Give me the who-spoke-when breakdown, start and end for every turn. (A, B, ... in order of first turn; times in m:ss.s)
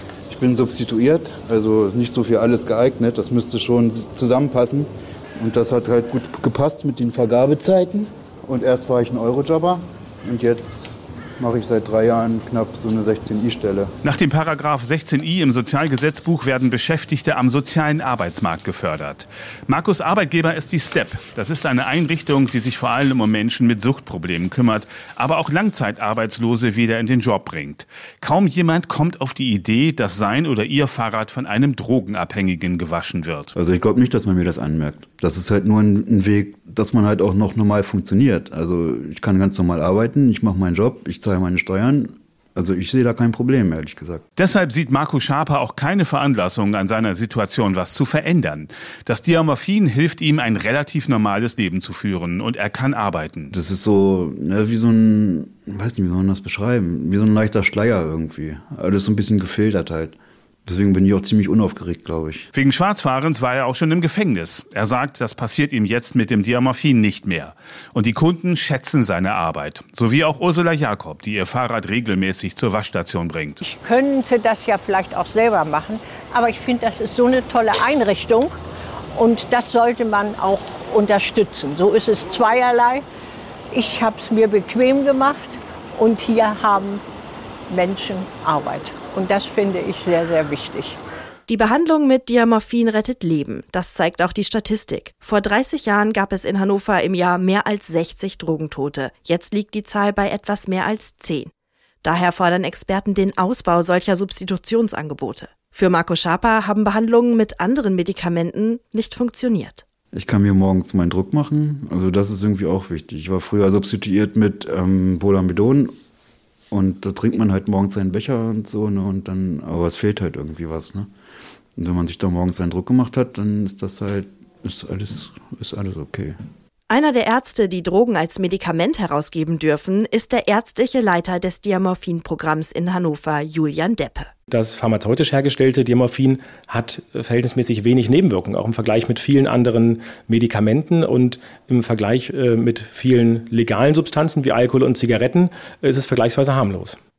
0:00.3-0:13.9 A
0:14.0-0:33.5 B
0:33.6-0:44.2 A
0:44.4-0:53.5 B
0:53.5-1:02.5 A
1:02.5-1:13.6 B
1:13.6-1:18.6 C
1:19.2-1:23.0 C
1:23.7-1:27.0 C
1:27.7-1:31.0 C
1:31.5-1:41.5 D
1:42.0-1:49.8 D
1:50.1-1:55.9 A
1:56.7-2:01.1 A
2:01.8-2:06.4 A
2:06.9-2:14.3 D
2:14.5-2:27.0 E